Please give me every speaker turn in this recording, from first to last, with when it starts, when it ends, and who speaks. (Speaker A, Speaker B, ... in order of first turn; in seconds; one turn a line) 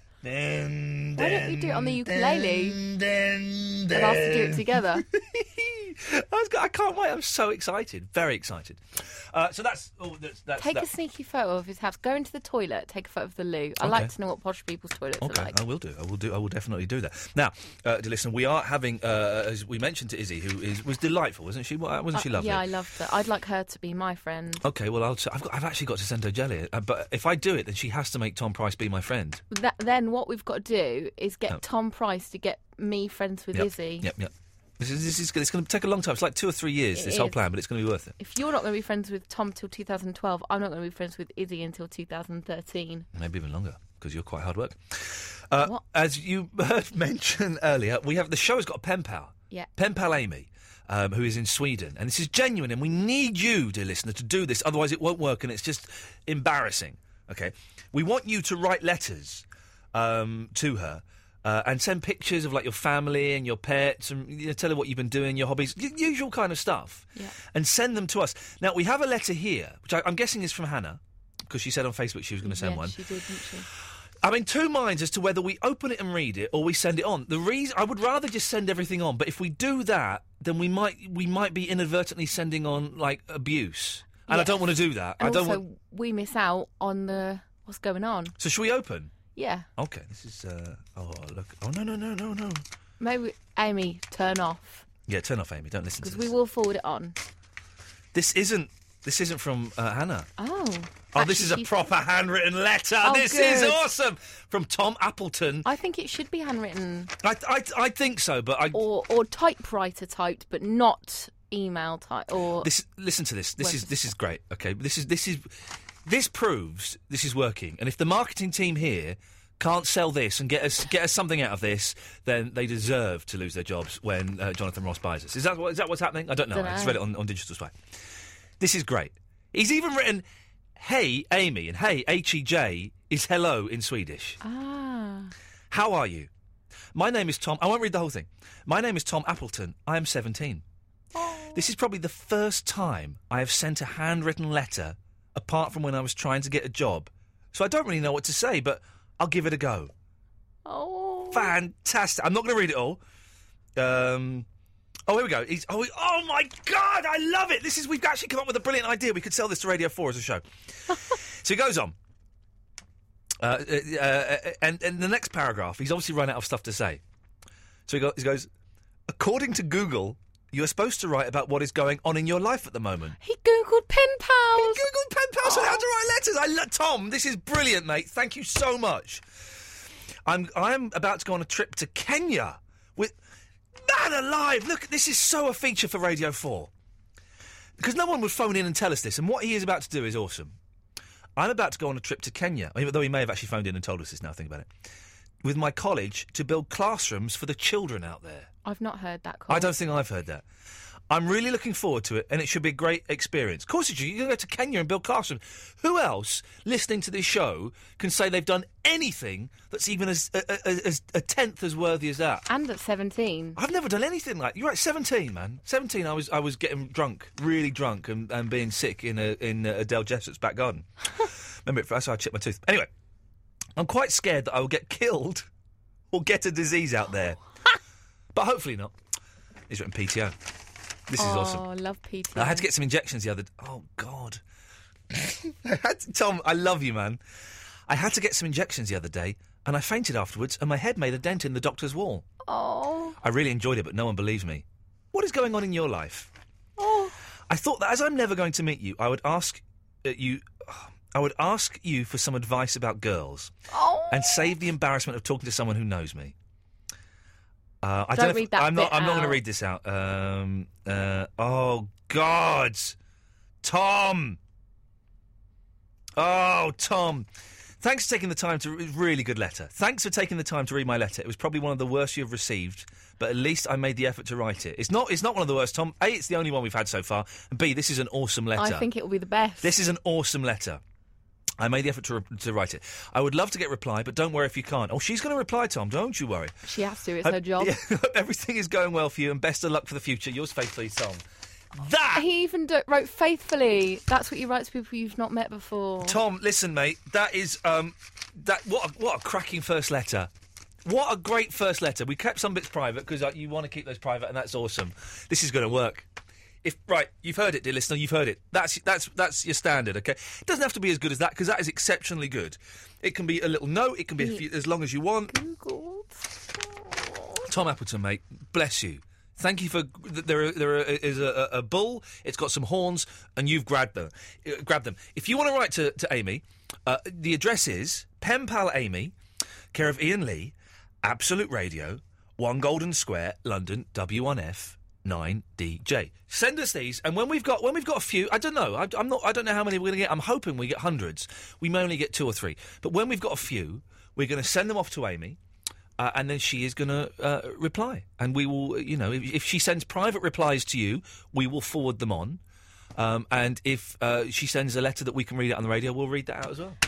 Speaker A: 0.2-10.9
Speaker B: 1.2-2.8
Speaker B: 3.9-5.0
Speaker B: 10.6-15.6
Speaker A: 13.8-14.1
Speaker A: 15.2-22.6
Speaker B: 22.1-24.7
Speaker A: 24.6-29.4
Speaker B: 29.5-34.1
Speaker A: 33.5-38.2
Speaker B: 37.0-37.4
Speaker B: 38.2-43.1
Speaker A: 43.1-73.0
Speaker B: 72.4-73.7
Speaker A: 74.2-85.6
Speaker B: 84.3-84.7
Speaker B: 85.2-88.3
Speaker A: 88.4-89.1
Speaker B: 89.3-89.7
Speaker A: 89.8-92.6
Speaker B: 93.0-94.9
Speaker A: 95.1-96.3
Speaker B: 96.0-97.2
Speaker A: 98.1-100.3
Speaker B: 100.4-101.8
Speaker A: 101.1-105.7
Speaker B: 103.0-103.8
Speaker B: 105.7-107.1
Speaker A: 107.2-108.8
Speaker B: 108.7-112.7
Speaker A: 112.6-127.8
Speaker B: 113.6-113.9
Speaker B: 126.5-127.0
Speaker A: 128.6-130.2
Speaker A: 130.8-134.4
Speaker B: 134.4-135.3
Speaker A: 135.7-136.3
Speaker A: 136.9-140.6
Speaker B: 141.2-141.7
Speaker A: 141.5-149.9
Speaker B: 150.7-151.6
Speaker A: 151.3-153.0
Speaker A: 153.8-154.5
Speaker A: 155.1-162.0
Speaker A: 163.4-167.0
Speaker A: 167.9-168.5
Speaker A: 169.1-173.2
Speaker B: 173.2-174.8
Speaker A: 174.6-179.2
Speaker B: 175.4-175.8
Speaker A: 180.3-183.2
Speaker A: 183.8-186.7
Speaker A: 187.8-190.6
Speaker A: 191.4-194.7
Speaker A: 195.4-198.5
Speaker B: 198.7-199.7
Speaker A: 199.5-200.4
Speaker A: 201.1-212.5
Speaker B: 212.5-213.6
Speaker A: 213.6-222.9
Speaker A: 223.8-225.5
Speaker A: 226.1-227.4
Speaker A: 228.3-228.9
Speaker A: 229.7-230.3
Speaker A: 231.1-231.6
Speaker B: 231.2-232.7
Speaker A: 232.3-234.4
Speaker A: 235.1-237.2
Speaker A: 237.9-242.2
Speaker B: 242.5-243.2
Speaker A: 243.2-246.3
Speaker B: 246.8-247.2
Speaker A: 247.5-253.5
Speaker B: 253.7-254.5
Speaker A: 254.1-256.4
Speaker A: 257.8-263.0
Speaker B: 258.1-259.4
Speaker A: 263.6-264.4
Speaker A: 266.2-267.3
Speaker A: 267.8-278.9
Speaker B: 278.6-279.7
Speaker A: 279.6-280.8
Speaker A: 281.6-286.6
Speaker B: 286.6-287.8
Speaker A: 287.2-292.3
Speaker B: 292.1-296.2
Speaker A: 296.0-300.3
Speaker A: 300.9-306.1
Speaker A: 306.6-315.3
Speaker B: 314.2-314.4
Speaker B: 315.3-317.5
Speaker A: 317.5-329.1
Speaker A: 329.7-345.4
Speaker A: 346.0-352.4
Speaker A: 353.0-356.8